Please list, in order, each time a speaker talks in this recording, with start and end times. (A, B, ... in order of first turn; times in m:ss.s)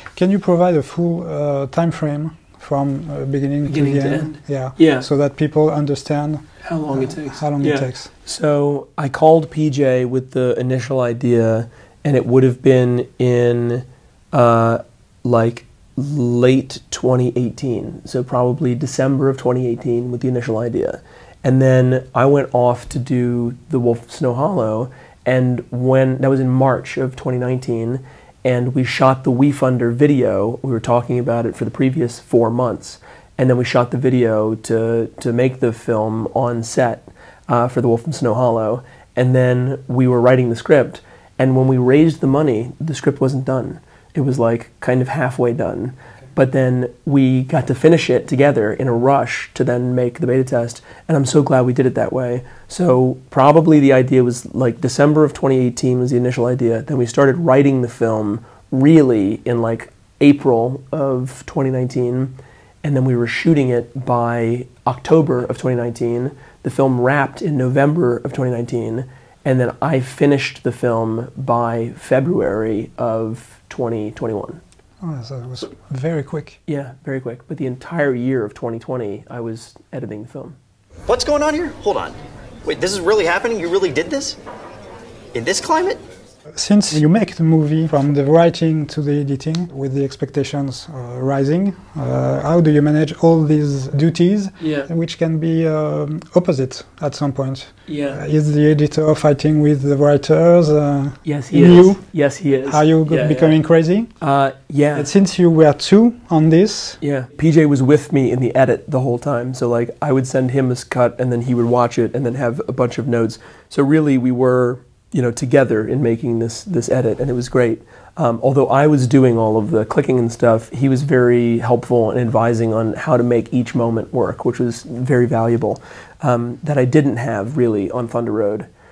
0:00.1-0:08.1 A
0:03.6-0:05.0 B
0:06.6-1:14.6 B
1:15.0-1:16.6 A
1:16.7-1:20.6 B
1:21.1-1:24.4 C
1:25.3-1:26.0 C
1:26.5-1:42.0 A
1:34.6-1:34.9 B
1:37.9-1:38.2 B
1:41.2-1:43.6 B
1:42.6-1:44.1 A
1:44.2-1:45.1 B
1:44.9-1:47.0 A
1:47.0-2:08.7 B